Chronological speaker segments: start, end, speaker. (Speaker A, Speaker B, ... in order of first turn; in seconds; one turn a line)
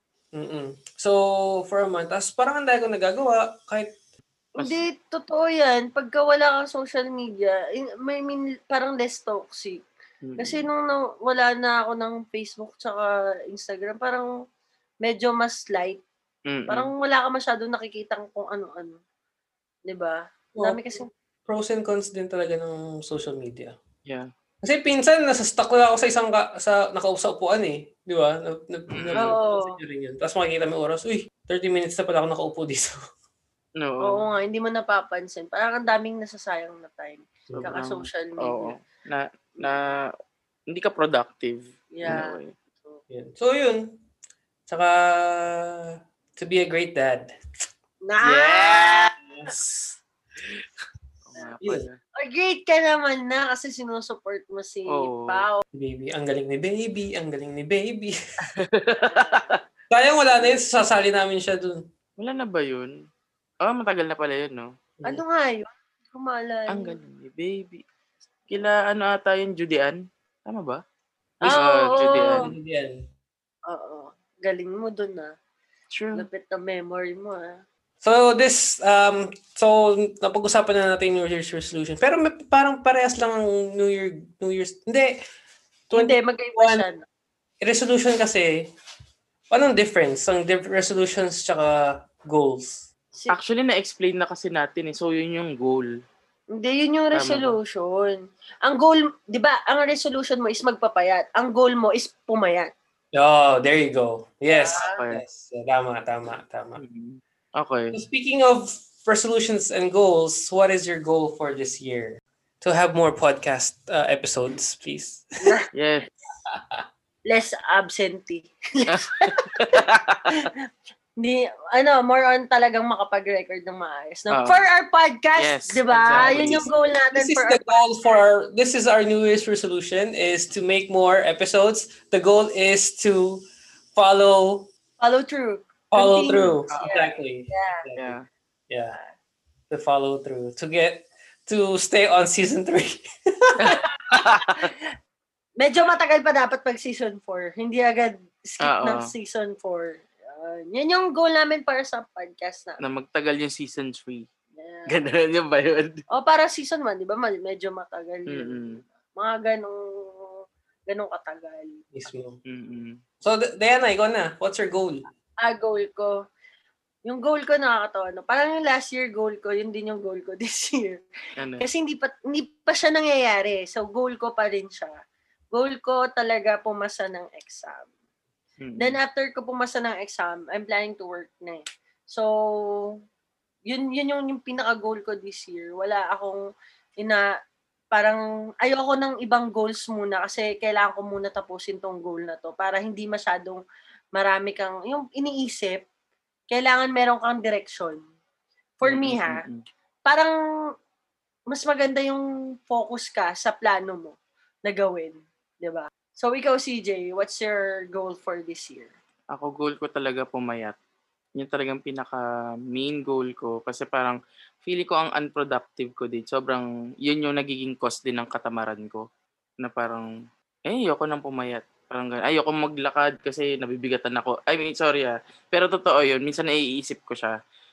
Speaker A: 0.3-4.0
Speaker B: 4.6-4.8
Speaker C: 4.6-9.8
Speaker B: 10.2-10.6
Speaker C: 10.4-14.3
Speaker C: 15.0-16.0
Speaker B: 16.5-16.9
Speaker C: 16.7-19.0
Speaker C: 19.9-21.1
Speaker A: 20.5-20.8
Speaker A: 21.5-23.8
Speaker A: 24.6-33.0
Speaker B: 28.9-29.4
Speaker C: 29.2-29.8
Speaker B: 33.8-34.2
Speaker C: 34.0-38.8
Speaker A: 37.5-37.8
Speaker B: 37.5-40.1
Speaker B: 40.7-42.5
Speaker C: 41.9-43.0
Speaker A: 43.1-44.0
Speaker A: 44.7-47.3
Speaker C: 48.1-49.1
Speaker B: 48.2-50.6
Speaker B: 51.3-52.0
Speaker C: 51.4-55.6
Speaker B: 54.9-55.5
Speaker A: 55.7-58.1
Speaker B: 58.6-59.6
Speaker C: 59.1-59.5
Speaker A: 59.9-61.9
Speaker B: 62.2-63.0
Speaker B: 63.6-64.7
Speaker C: 65.0-67.0
Speaker B: 66.7-67.8
Speaker B: 68.5-70.8
Speaker C: 71.4-72.5
Speaker B: 71.4-72.5
Speaker A: 72.1-73.0
Speaker C: 73.7-75.3
Speaker B: 75.9-76.2
Speaker C: 76.2-77.6
Speaker A: 78.0-85.2
Speaker A: 85.9-86.8
Speaker C: 85.9-87.0
Speaker A: 87.6-88.7
Speaker A: 89.5-92.9
Speaker B: 93.3-95.9
Speaker C: 96.5-102.7
Speaker B: 97.1-97.6
Speaker A: 103.1-106.8
Speaker C: 104.5-105.0
Speaker B: 104.8-105.2
Speaker B: 106.8-108.0
Speaker A: 107.9-115.3
Speaker C: 115.4-115.7
Speaker B: 115.7-116.1
Speaker A: 116.5-116.8
Speaker C: 117.3-120.5
Speaker B: 118.9-120.5
Speaker C: 121.2-127.8
Speaker B: 124.3-124.6
Speaker B: 125.4-126.7
Speaker A: 126.1-134.7
Speaker C: 135.0-137.8
Speaker A: 135.9-138.2
Speaker B: 136.4-137.0
Speaker B: 138.0-138.2
Speaker A: 138.7-139.0
Speaker A: 139.7-144.3
Speaker B: 143.6-144.6
Speaker C: 145.6-152.8
Speaker B: 148.6-149.1
Speaker B: 152.8-154.3
Speaker C: 154.6-154.9
Speaker B: 154.9-156.0
Speaker C: 156.1-161.8
Speaker B: 158.3-158.8
Speaker A: 161.9-162.4
Speaker B: 162.5-163.0
Speaker A: 163.2-165.0
Speaker C: 165.4-166.2
Speaker C: 167.1-171.0
Speaker B: 171.4-171.7
Speaker C: 171.6-174.9
Speaker C: 175.5-177.9
Speaker B: 178.6-179.0
Speaker C: 178.8-182.9
Speaker C: 183.7-186.4
Speaker C: 187.9-193.6
Speaker C: 194.2-195.8
Speaker C: 196.5-198.0
Speaker C: 198.8-199.4
Speaker B: 198.8-199.6
Speaker C: 200.1-200.4
Speaker C: 201.5-208.9
Speaker B: 209.3-210.8
Speaker B: 211.4-219.1
Speaker B: 219.6-220.1
Speaker B: 220.7-227.4